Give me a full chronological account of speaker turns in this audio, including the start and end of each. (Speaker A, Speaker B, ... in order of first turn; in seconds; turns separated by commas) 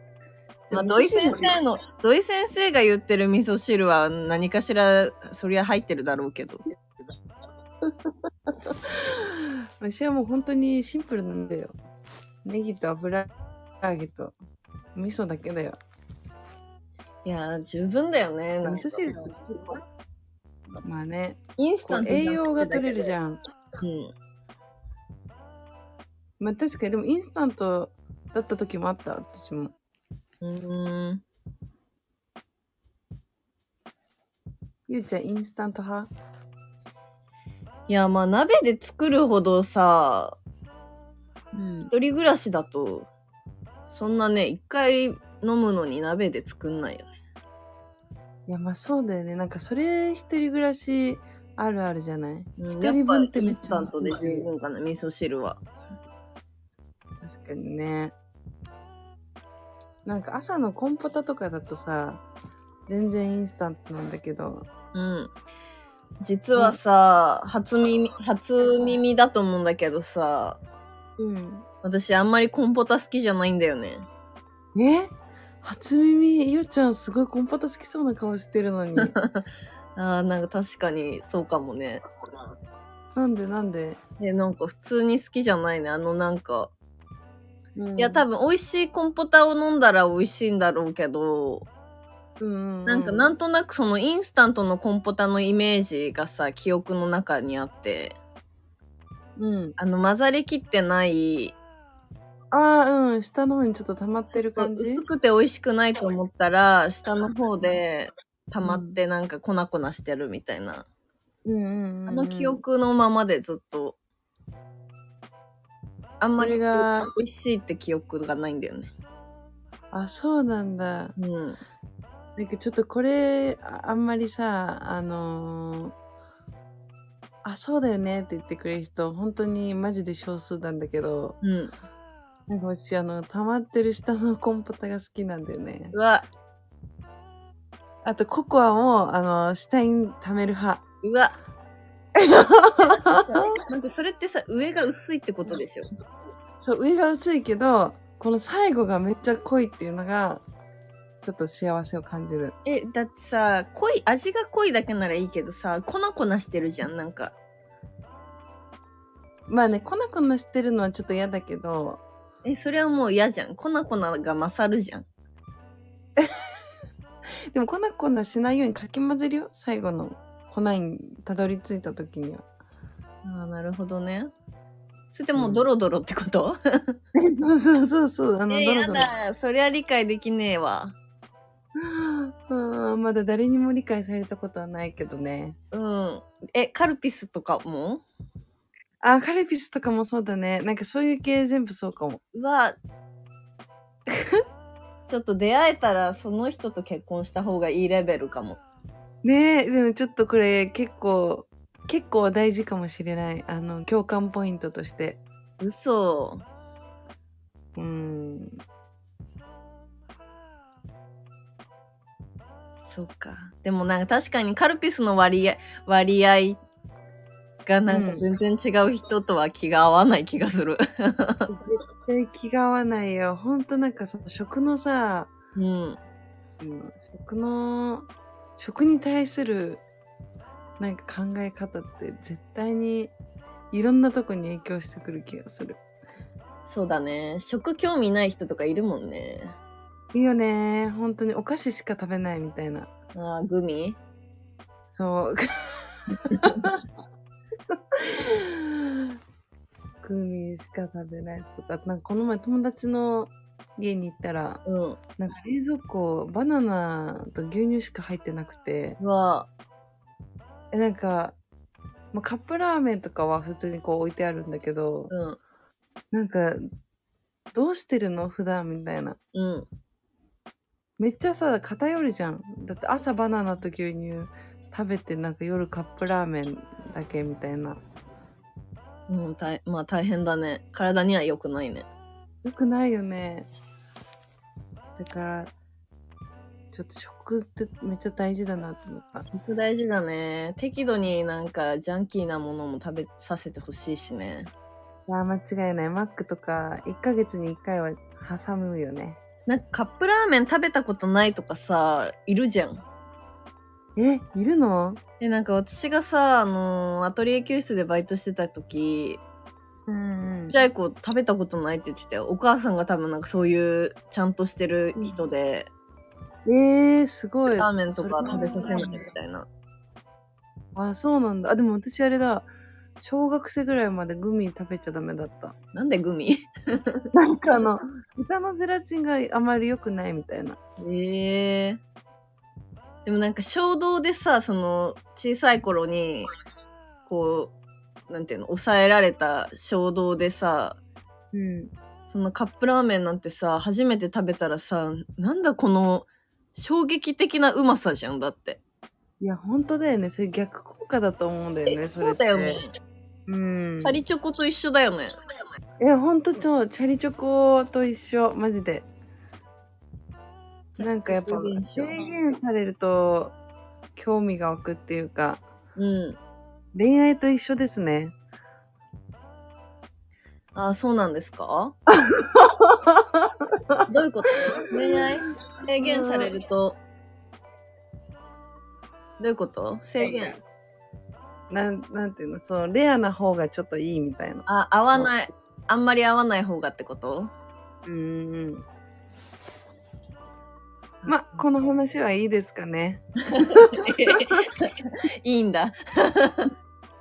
Speaker A: 0.7-6.6, Speaker B: 0.7-1.5, Speaker B: 7.9-11.8, Speaker B: 12.4-13.3, Speaker B: 13.8-14.3, Speaker B: 14.9-15.8, Speaker A: 17.2-19.1, Speaker B: 18.6-19.5, Speaker B: 20.8-23.4, Speaker A: 21.6-23.1, Speaker A: 23.8-24.1, Speaker B: 26.4-29.7, Speaker A: 30.4-31.2, Speaker B: 34.9-36.1, Speaker A: 37.9-40.4, Speaker B: 41.5-41.9, Speaker A: 41.9-43.1, Speaker A: 43.9-47.0, Speaker B: 48.5-54.5, Speaker A: 52.6-55.6, Speaker B: 57.2-58.1, Speaker B: 60.0-62.2, Speaker B: 62.9-64.7, Speaker A: 64.9-65.3, Speaker A: 66.2-70.6, Speaker B: 71.2-71.7, Speaker A: 71.8-74.1, Speaker B: 74.7-79.1, Speaker A: 79.0-79.4, Speaker A: 80.0-82.0, Speaker B: 83.1-84.0, Speaker A: 84.2-86.7, Speaker B: 87.8-88.2, Speaker A: 88.0-91.7, Speaker B: 92.4-93.3, Speaker A: 92.8-98.2, Speaker B: 99.4-99.8, Speaker A: 99.8-101.5, Speaker B: 102.5-105.0, Speaker A: 104.3-110.8, Speaker B: 108.6-109.0, Speaker B: 111.4-112.6, Speaker A: 112.1-114.0, Speaker A: 116.2-118.9, Speaker B: 116.3-117.1, Speaker B: 119.9-121.1, Speaker A: 121.2-121.6, Speaker B: 122.4-125.9, Speaker B: 127.4-131.4, Speaker A: 131.4-131.7, Speaker B: 132.5-135.9, Speaker A: 135.9-136.2, Speaker B: 138.0-140.8, Speaker A: 141.0-141.3, Speaker B: 142.2-143.6, Speaker A: 143.1-145.9, Speaker B: 146.6-150.4, Speaker B: 151.2-152.6, Speaker A: 152.6-157.3, Speaker B: 159.5-162.0, Speaker A: 162.4-165.1, Speaker B: 167.5-172.4, Speaker A: 173.2-174.3, Speaker A: 175.1-177.0, Speaker B: 175.3-175.6, Speaker B: 177.1-179.1, Speaker A: 178.5-180.9, Speaker B: 181.8-185.6, Speaker A: 185.7-188.0, Speaker B: 189.0-192.2, Speaker A: 192.3-192.8, Speaker B: 194.1-194.3, Speaker A: 195.1-198.6, Speaker B: 199.2-205.2, Speaker A: 205.6-206.4, Speaker B: 207.8-208.6, Speaker A: 212.9-216.6, Speaker A: 217.7-221.5, Speaker B: 217.9-218.2, Speaker B: 221.5-225.3, Speaker A: 225.6-226.0, Speaker B: 226.6-229.8, Speaker B: 230.8-233.1, Speaker B: 233.7-235.8, Speaker A: 236.6-239.6, Speaker B: 240.1-242.9, Speaker A: 243.1-244.0, Speaker B: 244.9-246.8, Speaker A: 246.3-246.7, Speaker B: 247.7-249.1, Speaker B: 250.0-254.6, Speaker A: 254.7-255.0, Speaker B: 255.2-259.0, Speaker A: 259.0-259.5, Speaker B: 260.7-261.4, Speaker B: 262.1-265.1, Speaker A: 265.1-265.4, Speaker B: 266.1-266.7, Speaker B: 267.5-269.2, Speaker A: 269.3-269.7, Speaker B: 271.0-277.8, Speaker A: 279.1-281.9, Speaker B: 282.4-283.5, Speaker B: 285.0-285.5, Speaker B: 286.7-289.2, Speaker A: 289.3-294.5, Speaker B: 295.1-299.2, Speaker A: 299.5-302.8, Speaker B: 303.9-305.0, Speaker A: 305.2-309.2, Speaker B: 309.9-310.6, Speaker A: 310.5-315.7, Speaker B: 316.4-319.1, Speaker A: 317.6-319.5, Speaker B: 320.7-322.5, Speaker B: 323.0-325.5, Speaker A: 325.7-327.0, Speaker B: 327.1-330.6, Speaker A: 330.8-331.8, Speaker A: 333.0-336.3, Speaker A: 337.0-337.5, Speaker A: 338.1-340.8, Speaker B: 341.3-341.7, Speaker A: 342.1-348.6, Speaker B: 349.2-352.6, Speaker A: 351.7-352.7, Speaker B: 353.3-354.0, Speaker A: 353.8-355.1, Speaker B: 355.8-358.9, Speaker A: 360.7-361.9, Speaker B: 360.8-363.4, Speaker B: 363.9-365.4, Speaker A: 365.8-366.2, Speaker B: 366.7-368.1, Speaker A: 370.5-371.8, Speaker B: 371.9-373.8, Speaker A: 373.9-376.8, Speaker B: 375.8-376.3, Speaker A: 379.2-380.4, Speaker B: 380.0-380.3, Speaker B: 381.5-385.1, Speaker A: 384.5-387.3, Speaker B: 387.9-388.6, Speaker A: 391.0-391.4, Speaker B: 391.1-394.3, Speaker A: 393.3-396.5